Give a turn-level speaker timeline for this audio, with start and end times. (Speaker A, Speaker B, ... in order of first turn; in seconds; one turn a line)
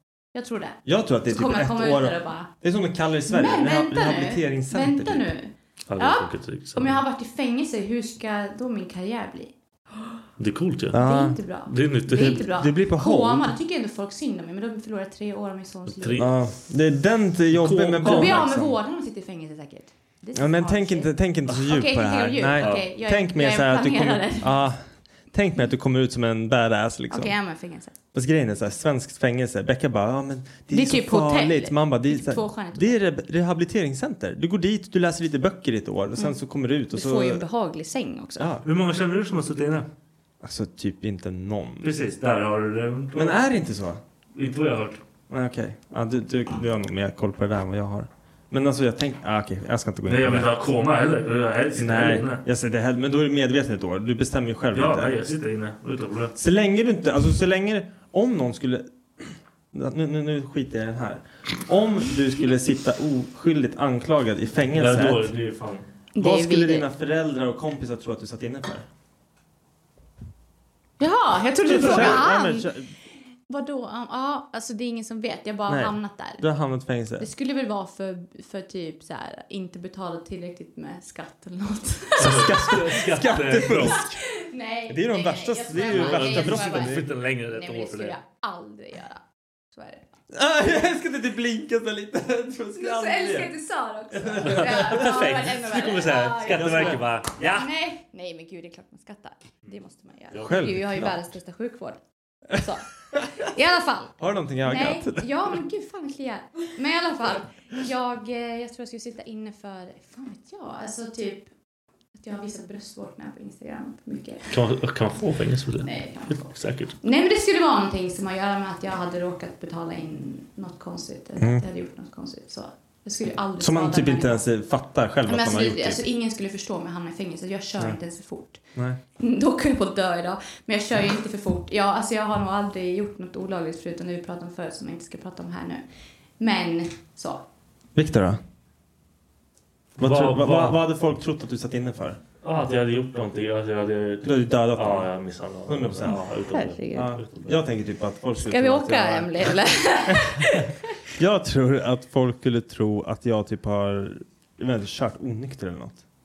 Speaker A: 0.3-2.5
Speaker B: 0.9-5.3
Speaker A: 3.3-9.5
Speaker C: 5.9-7.0
Speaker C: 10.4-11.0
Speaker B: 10.9-11.4
Speaker A: 10.9-16.3
Speaker C: 11.7-12.5
Speaker B: 12.1-13.6
Speaker C: 15.9-16.5
Speaker B: 16.2-18.8
Speaker C: 17.5-18.5
Speaker A: 18.0-24.6
Speaker B: 20.4-27.3
Speaker C: 22.6-22.9
Speaker A: 27.1-27.9
Speaker B: 28.1-37.4
Speaker A: 30.7-33.0
Speaker A: 36.9-38.5
Speaker B: 38.4-38.7
Speaker C: 38.6-39.9
Speaker B: 40.4-41.9
Speaker C: 41.8-43.4
Speaker B: 43.1-44.0
Speaker C: 44.4-45.0
Speaker B: 45.3-50.5
Speaker C: 50.1-52.4
Speaker B: 51.8-55.2
Speaker C: 54.7-56.4
Speaker B: 56.4-65.3
Speaker C: 64.8-65.8
Speaker A: 66.2-66.9
Speaker B: 66.2-68.9
Speaker A: 71.0-72.7
Speaker B: 71.7-72.9
Speaker C: 71.8-72.2
Speaker A: 73.5-76.5
Speaker B: 75.7-77.3
Speaker A: 77.2-82.8
Speaker B: 82.2-84.2
Speaker C: 82.2-84.0
Speaker A: 83.9-90.1
Speaker B: 84.9-87.1
Speaker C: 85.8-88.2
Speaker B: 90.3-93.5
Speaker A: 92.8-97.0
Speaker B: 94.1-95.3
Speaker C: 94.4-97.7
Speaker B: 96.5-97.1
Speaker A: 97.5-102.0
Speaker B: 100.4-101.2
Speaker A: 102.5-111.5
Speaker B: 104.2-105.6
Speaker A: 112.2-114.5
Speaker C: 114.5-117.0
Speaker A: 115.8-124.4
Speaker B: 121.4-121.6
Speaker B: 123.6-126.0
Speaker A: 125.3-128.6
Speaker B: 128.8-129.0
Speaker A: 129.2-135.8
Speaker A: 136.4-137.4
Speaker B: 137.9-138.4
Speaker C: 140.0-140.8
Speaker B: 140.0-142.2
Speaker C: 142.4-147.6
Speaker B: 144.2-145.1
Speaker B: 145.7-146.3
Speaker A: 146.5-147.1
Speaker B: 146.9-149.5
Speaker A: 148.5-150.9
Speaker B: 150.1-156.0